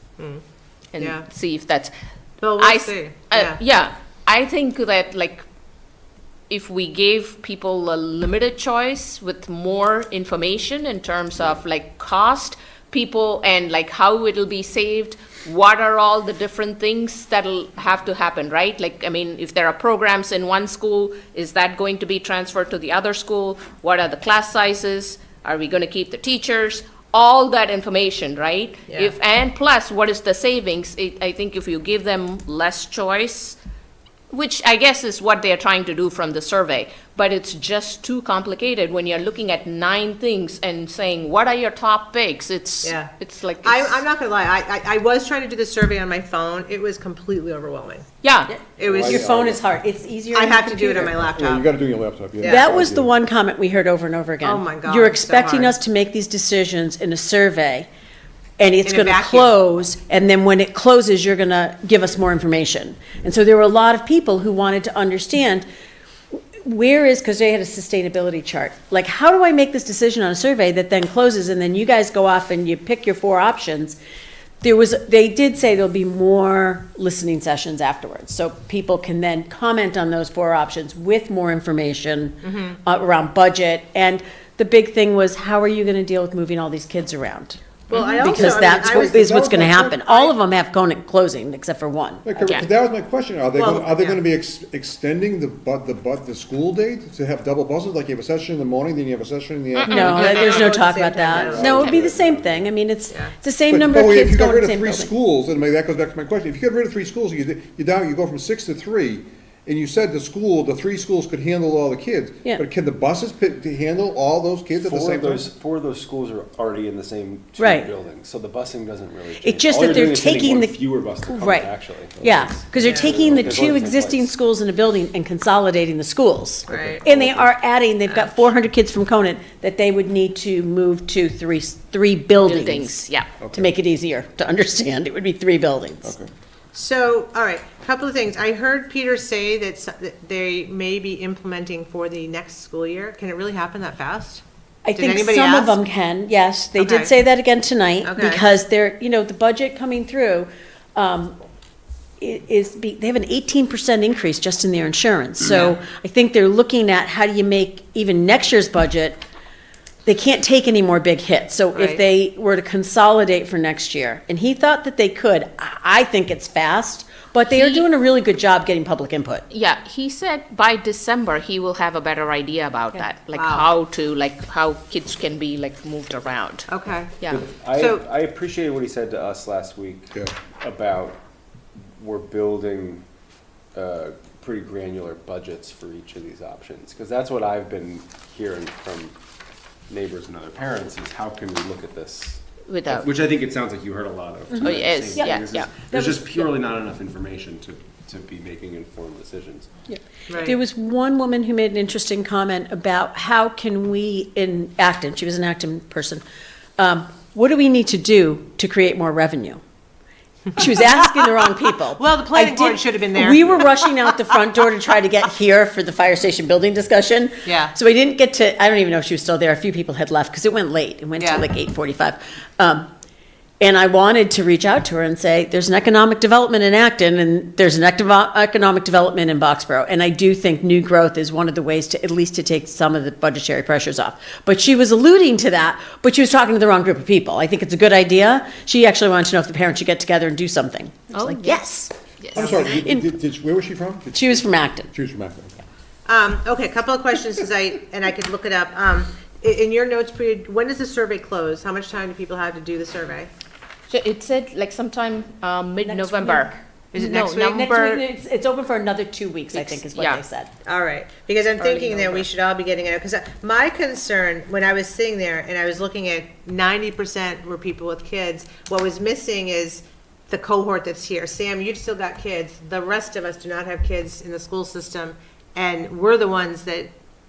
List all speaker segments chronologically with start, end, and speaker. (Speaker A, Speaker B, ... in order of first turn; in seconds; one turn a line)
Speaker A: 0.9-1.9
Speaker B: 1.0-1.2
Speaker B: 2.4-3.6
Speaker A: 2.6-5.5
Speaker A: 6.5-33.6
Speaker B: 28.9-29.1
Speaker A: 34.3-44.0
Speaker B: 42.8-43.1
Speaker B: 43.6-48.0
Speaker A: 48.2-48.5
Speaker C: 48.5-51.2
Speaker B: 48.8-49.2
Speaker D: 48.8-49.6
Speaker B: 50.3-51.7
Speaker D: 51.2-53.1
Speaker B: 52.4-52.7
Speaker C: 52.4-57.9
Speaker B: 54.4-55.8
Speaker C: 58.6-65.7
Speaker B: 58.8-59.5
Speaker C: 66.6-74.0
Speaker C: 74.6-87.6
Speaker B: 82.5-82.8
Speaker B: 87.9-90.3
Speaker D: 87.9-90.0
Speaker C: 88.2-92.3
Speaker D: 92.2-100.7
Speaker A: 92.4-92.7
Speaker B: 93.5-94.2
Speaker A: 99.8-100.5
Speaker C: 99.9-105.1
Speaker B: 100.0-102.1
Speaker D: 101.3-102.7
Speaker D: 103.7-115.5
Speaker E: 114.8-124.3
Speaker C: 117.6-117.9
Speaker C: 119.4-136.1
Speaker B: 122.8-123.2
Speaker B: 126.7-127.0
Speaker E: 127.0-127.5
Speaker B: 128.1-128.3
Speaker A: 132.4-133.3
Speaker D: 133.4-133.7
Speaker D: 136.0-136.3
Speaker B: 136.7-144.4
Speaker C: 144.8-151.3
Speaker B: 144.9-145.8
Speaker B: 146.8-147.1
Speaker B: 148.0-148.4
Speaker C: 152.2-159.2
Speaker B: 155.4-155.7
Speaker C: 160.1-169.4
Speaker A: 167.5-167.8
Speaker A: 169.5-176.7
Speaker B: 173.3-173.7
Speaker B: 176.7-177.1
Speaker E: 177.3-181.2
Speaker B: 177.7-178.0
Speaker E: 182.0-183.0
Speaker E: 183.7-189.1
Speaker E: 189.9-199.7
Speaker A: 192.7-193.1
Speaker C: 194.6-196.5
Speaker A: 194.6-195.7
Speaker C: 199.9-206.2
Speaker B: 200.3-200.6
Speaker C: 206.8-209.6
Speaker C: 210.6-222.9
Speaker B: 210.6-211.1
Speaker B: 211.9-213.8
Speaker B: 217.4-217.7
Speaker B: 221.2-221.4
Speaker C: 223.6-241.9
Speaker A: 241.1-241.7
Speaker A: 242.2-242.7
Speaker D: 242.3-245.5
Speaker C: 242.6-243.1
Speaker C: 244.1-244.9
Speaker B: 246.1-253.3
Speaker A: 253.9-258.0
Speaker C: 255.8-256.6
Speaker B: 256.9-257.6
Speaker C: 257.2-260.5
Speaker A: 259.5-260.2
Speaker B: 260.6-276.9
Speaker A: 261.6-262.3